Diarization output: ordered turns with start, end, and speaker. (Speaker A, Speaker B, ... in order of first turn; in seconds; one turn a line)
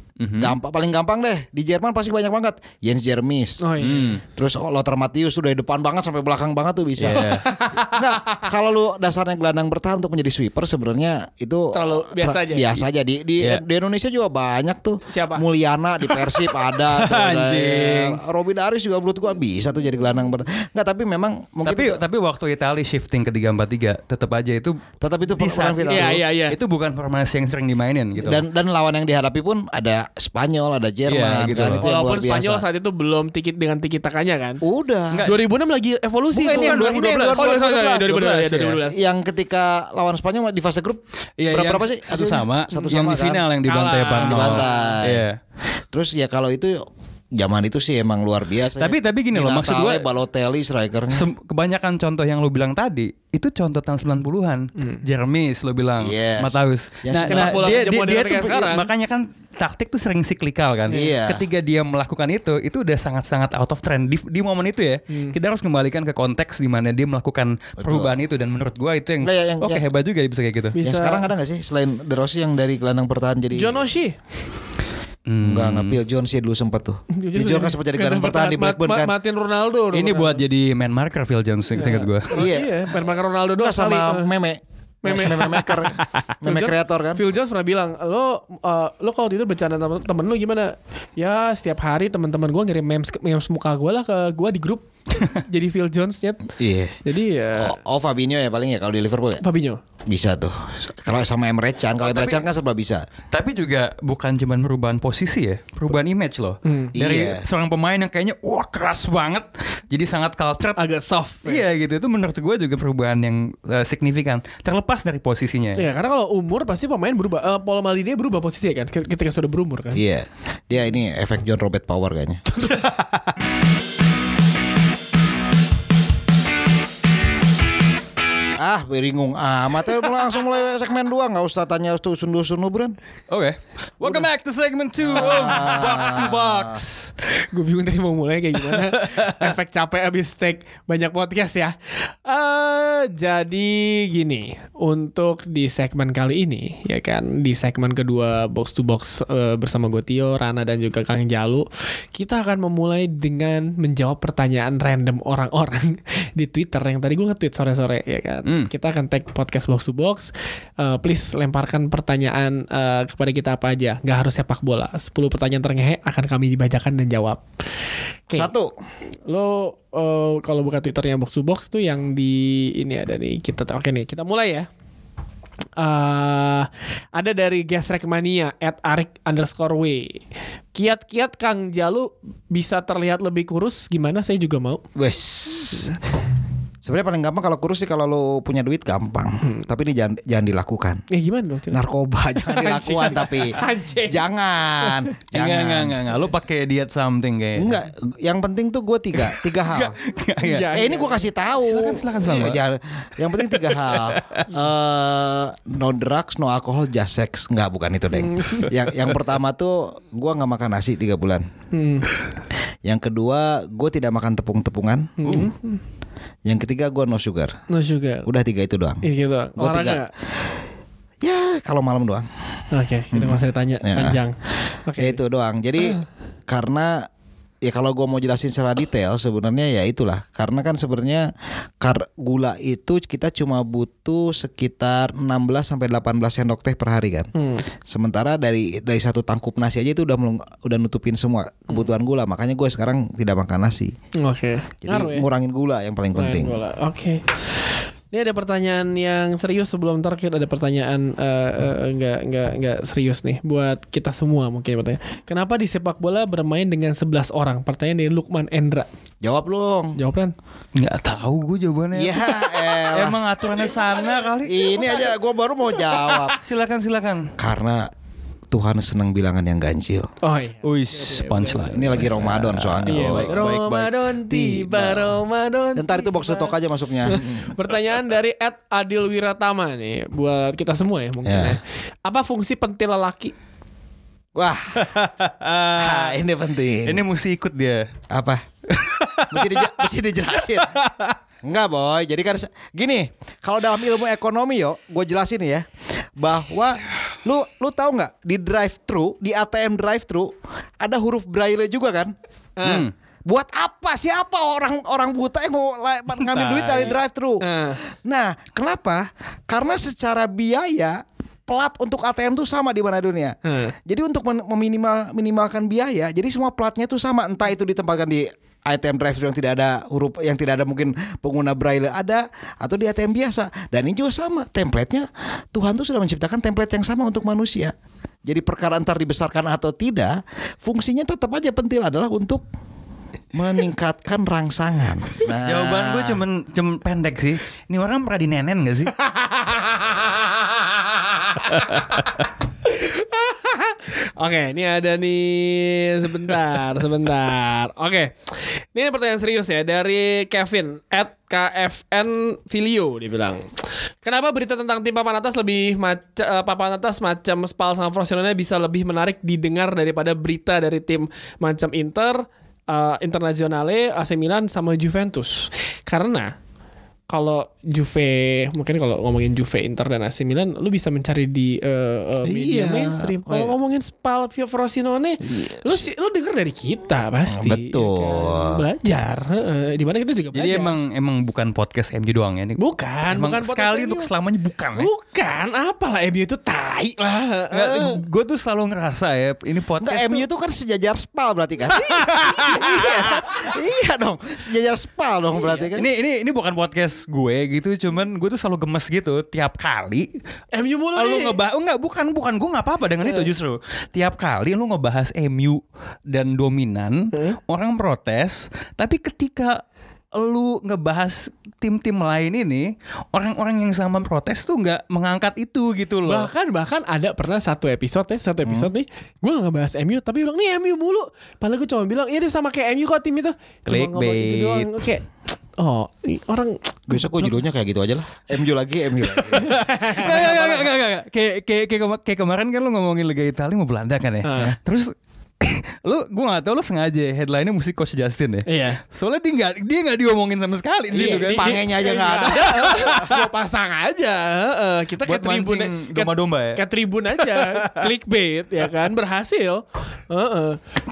Speaker A: 0.2-0.5
Speaker B: 0.4-3.7
Speaker C: 3.6-4.2
Speaker A: 3.8-4.2
Speaker B: 4.3-22.0
Speaker A: 7.0-7.5
Speaker C: 7.2-8.4
Speaker C: 11.7-12.7
Speaker C: 15.1-15.4
Speaker A: 16.9-18.2
Speaker A: 21.6-24.8
Speaker B: 25.0-26.2
Speaker A: 25.3-28.4
Speaker C: 25.9-26.6
Speaker B: 28.2-32.6
Speaker A: 31.1-31.9
Speaker C: 31.8-34.6
Speaker B: 34.6-35.3
Speaker A: 35.1-35.4
Speaker C: 35.3-39.0
Speaker B: 36.3-38.2
Speaker A: 36.4-38.8
Speaker B: 38.9-43.5
Speaker A: 41.4-45.4
Speaker C: 43.6-45.0
Speaker B: 44.1-45.2
Speaker B: 45.9-46.8
Speaker B: 47.4-51.2
Speaker A: 48.8-50.1
Speaker A: 51.1-70.8
Speaker B: 56.0-57.8
Speaker C: 57.1-58.9
Speaker B: 60.9-61.5
Speaker B: 67.8-68.2
Speaker B: 69.2-69.8
Speaker C: 70.8-71.3
Speaker B: 70.8-73.8
Speaker C: 73.5-74.2
Speaker A: 75.3-76.0
Speaker B: 75.4-79.1
Speaker C: 77.1-80.4
Speaker A: 79.9-82.4
Speaker C: 81.8-84.3
Speaker B: 82.3-87.2
Speaker C: 85.0-85.8
Speaker C: 86.4-96.5
Speaker B: 96.6-97.0
Speaker C: 97.0-97.8
Speaker B: 97.6-99.4
Speaker C: 99.4-99.8
Speaker B: 100.1-103.1
Speaker A: 102.0-102.4
Speaker A: 103.3-110.8
Speaker C: 106.7-106.9
Speaker B: 107.0-107.4
Speaker C: 110.8-111.6
Speaker A: 111.5-115.9
Speaker C: 115.8-120.0
Speaker B: 119.9-122.4
Speaker C: 122.5-122.8
Speaker A: 122.7-123.2
Speaker B: 128.6-133.0
Speaker A: 133.3-137.1
Speaker B: 135.0-136.8
Speaker C: 137.4-167.4
Speaker A: 138.6-139.5
Speaker A: 158.4-158.7
Speaker B: 168.3-168.7
Speaker C: 169.3-174.7
Speaker C: 175.8-180.2
Speaker C: 180.8-184.8
Speaker B: 184.9-186.0
Speaker B: 186.8-191.0
Speaker C: 191.1-191.8
Speaker B: 191.7-196.0
Speaker C: 192.4-194.2
Speaker C: 194.8-195.1
Speaker A: 195.3-197.8
Speaker B: 197.6-199.9
Speaker A: 199.2-200.7
Speaker C: 200.4-201.2
Speaker B: 200.7-211.5
Speaker A: 201.6-202.6
Speaker A: 203.3-204.4
Speaker C: 208.2-208.7
Speaker C: 211.7-212.1
Speaker B: 212.8-215.5
Speaker C: 215.2-215.8
Speaker B: 216.5-217.5
Speaker C: 217.7-218.3
Speaker B: 218.3-219.0
Speaker C: 219.0-220.1
Speaker B: 219.6-220.0
Speaker B: 221.2-222.3
Speaker C: 222.7-225.2
Speaker B: 223.1-224.2
Speaker B: 225.0-227.1
Speaker B: 227.6-237.3
Speaker C: 237.3-237.7
Speaker B: 237.9-243.9
Speaker C: 244.2-245.3
Speaker B: 244.8-246.6
Speaker C: 246.2-247.6
Speaker C: 248.1-258.9
Speaker B: 259.2-260.0
Speaker C: 260.0-260.3
Speaker A: 260.8-265.0
Speaker B: 261.9-263.2
Speaker B: 264.4-266.4
Speaker A: 266.4-267.3
Speaker B: 267.4-267.9
Speaker B: 268.5-270.1
Speaker C: 270.2-272.1
Speaker A: 270.6-274.0
Speaker B: 271.6-273.5
Speaker C: 272.9-276.5
Speaker B: 274.3-275.2
Speaker B: 275.8-277.6
Speaker C: 277.1-283.3
Speaker B: 281.2-281.6
Speaker B: 284.4-284.9
Speaker A: 284.8-286.2
Speaker B: 285.8-287.0
Speaker A: 286.9-287.9
Speaker B: 288.1-288.5
Speaker A: 288.7-289.8
Speaker B: 289.3-290.7
Speaker A: 290.4-291.2
Speaker B: 291.4-295.6
Speaker B: 296.2-302.1
Speaker C: 302.6-302.9
Speaker A: 302.6-302.9
Speaker B: 303.3-327.7
Speaker A: 306.1-306.9
Speaker C: 307.4-307.8
Speaker C: 313.4-313.8
Speaker B: 328.2-332.4
Speaker B: 333.3-336.2
Speaker A: 335.4-338.9
Speaker C: 339.0-366.3
Speaker C: 367.1-380.8
Speaker B: 372.2-373.6
Speaker B: 375.2-375.9
Speaker B: 377.3-378.6
Speaker A: 380.3-384.9
Speaker C: 382.6-384.1
Speaker C: 384.8-388.0
Speaker A: 387.5-390.2
Speaker B: 389.8-395.9
Speaker C: 391.7-392.8
Speaker A: 392.0-393.1
Speaker A: 395.8-400.1
Speaker C: 400.5-401.4
Speaker A: 401.0-409.6
Speaker A: 410.1-416.3
Speaker C: 416.1-427.4
Speaker B: 418.4-418.7
Speaker A: 423.7-424.7
Speaker B: 426.9-429.6
Speaker A: 429.3-441.6
Speaker C: 429.3-430.7
Speaker C: 434.2-434.6
Speaker C: 438.5-438.8
Speaker C: 440.9-450.6
Speaker B: 440.9-443.0
Speaker A: 442.4-443.2
Speaker A: 445.0-446.6
Speaker A: 447.2-447.9